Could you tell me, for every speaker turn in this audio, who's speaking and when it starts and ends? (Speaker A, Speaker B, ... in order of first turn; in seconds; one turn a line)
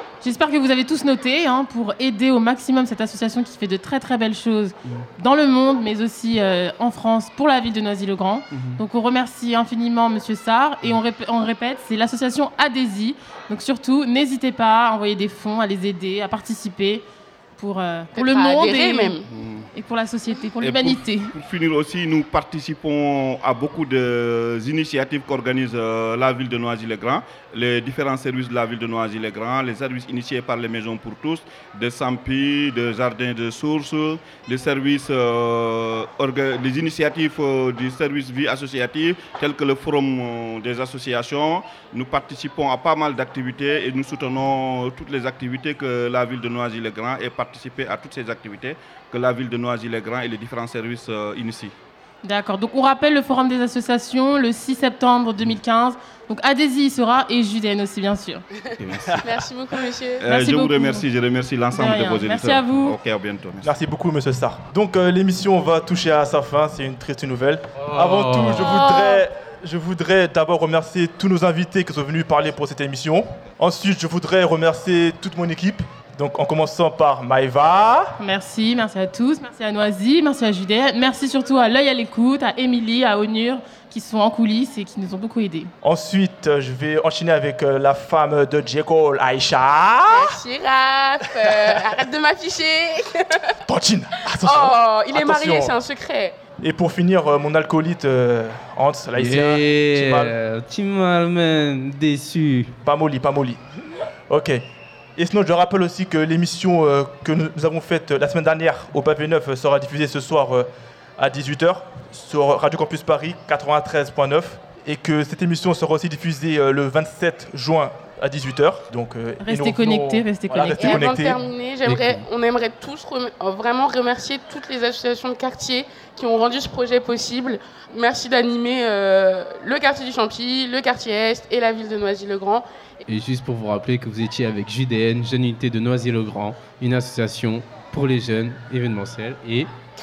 Speaker A: 0.2-17.1
Speaker A: 17.6-19.2
Speaker B: 18.1-19.3
Speaker C: 19.3-19.7
Speaker A: 19.7-21.3
Speaker C: 20.6-51.7
Speaker A: 52.2-58.4
Speaker B: 59.2-60.2
Speaker C: 60.2-63.7
Speaker A: 60.2-61.0
Speaker A: 61.7-63.0
Speaker D: 63.6-78.1
Speaker E: 67.8-68.8
Speaker B: 68.6-69.2
Speaker A: 78.2-85.7
Speaker D: 85.8-90.3
Speaker B: 90.1-93.5
Speaker D: 93.7-95.7
Speaker B: 94.4-96.4
Speaker D: 96.6-100.3
Speaker E: 99.1-102.7
Speaker D: 102.8-103.6
Speaker D: 104.3-104.6
Speaker D: 105.2-121.4
Speaker A: 119.4-121.0
Speaker B: 120.8-132.7
Speaker E: 121.8-122.2
Speaker E: 133.1-139.7